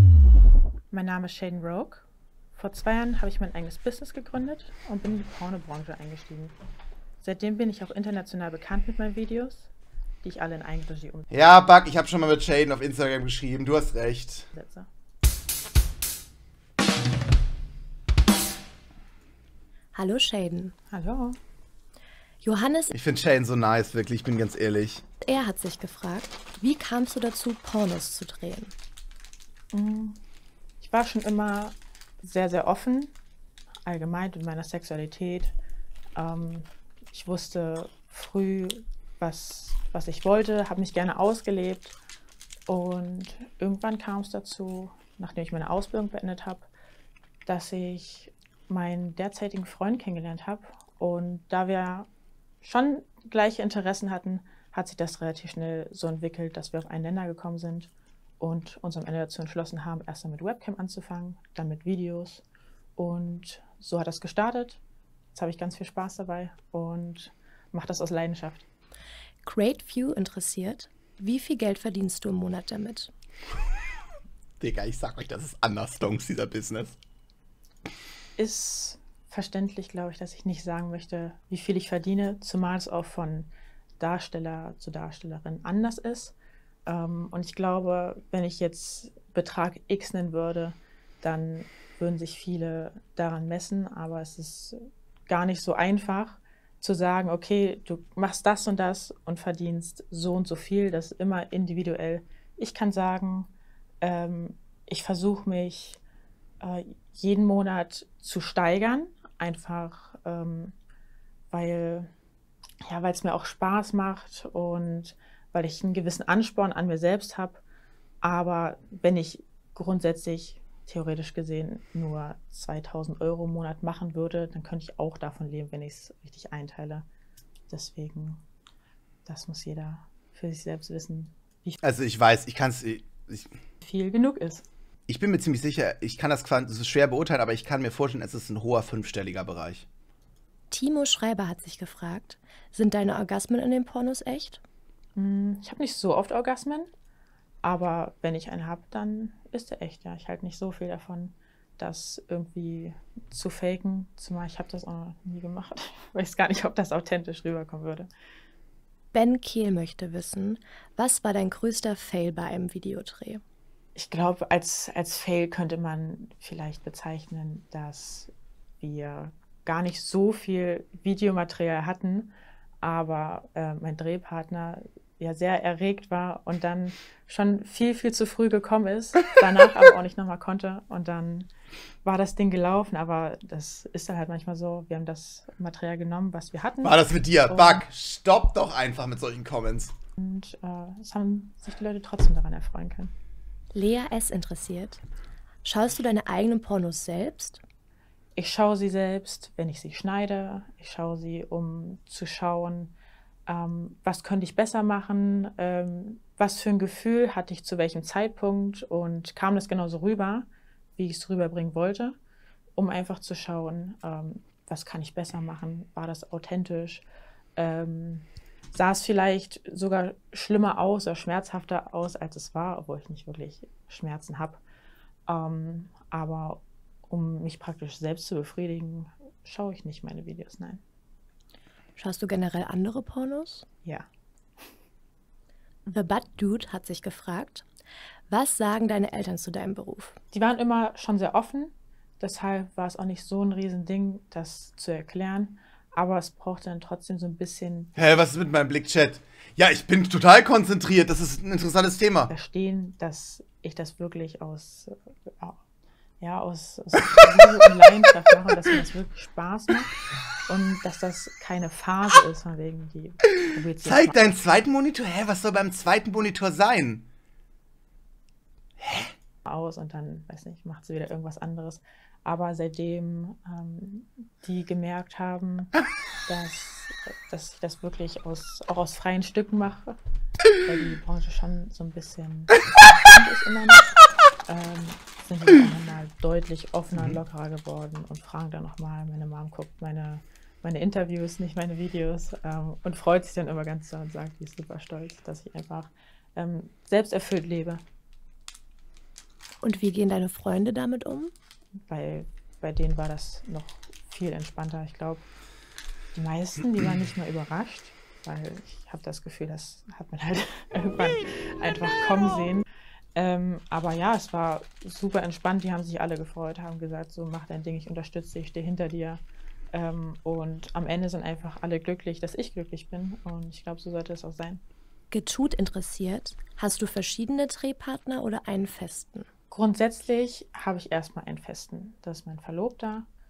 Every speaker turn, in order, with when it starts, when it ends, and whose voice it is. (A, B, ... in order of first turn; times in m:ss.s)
0:00.9-0:06.6 A
0:07.2-0:09.7 A
0:10.2-0:11.3 A
0:11.3-0:14.5 B
0:14.5-0:14.9 A
0:19.9-0:20.7 C
0:20.9-0:21.4 A
0:22.4-0:22.9 C
0:22.9-0:25.0 B
0:25.2-0:28.7 C
0:29.7-0:30.2 A
0:30.8-0:33.1 A
0:33.9-0:35.5 A
0:36.2-0:42.0 A
0:42.7-0:46.7 A
0:47.5-0:52.1 A
0:52.6-1:02.4 A
1:03.0-1:04.8 A
1:05.3-1:08.6 A
1:09.4-1:13.1 C
1:14.6-1:17.0 B
1:18.4-1:26.4 A
1:26.9-1:43.5 A
1:44.0-1:46.0 A
1:46.6-1:50.8 A
1:51.5-1:52.1 A
1:52.8-1:57.6 A
1:58.2-2:07.1 A
2:07.7-2:08.4 A
2:09.2-2:11.8 A
2:11.8-2:13.5 B
2:13.8-2:14.7 A
2:15.1-2:19.9 B
2:20.7-2:24.6 C
2:25.2-2:26.9 A
2:27.6-2:38.1 A
2:39.1-2:43.4 C
2:44.0-3:01.5 A
3:02.0-3:07.9 A
3:06.8-3:09.9 B
3:10.2-3:13.1 A
3:13.7-3:15.0 C
3:15.6-3:17.6 C
3:18.4-3:22.9 A
3:23.5-3:32.2 A
3:32.8-3:37.0 A
3:37.6-3:44.6 A
3:45.3-3:50.8 A
3:52.0-3:53.6 C
3:55.9-3:57.6 C
3:58.3-4:00.2 C
4:00.3-4:08.0 A
4:08.0-4:12.3 B
4:12.3-4:15.6 A
4:16.2-4:19.9 A
4:20.5-4:24.2 A
4:23.8-4:27.1 B
4:28.8-4:29.1 B
4:29.5-4:35.7 A
4:36.3-4:40.0 A
4:40.6-4:43.9 A
4:44.5-4:57.8 A
4:59.6-5:01.3 C
5:01.9-5:05.3 A
5:06.2-5:24.6 A
5:25.1-5:29.3 C
5:29.5-5:33.1 A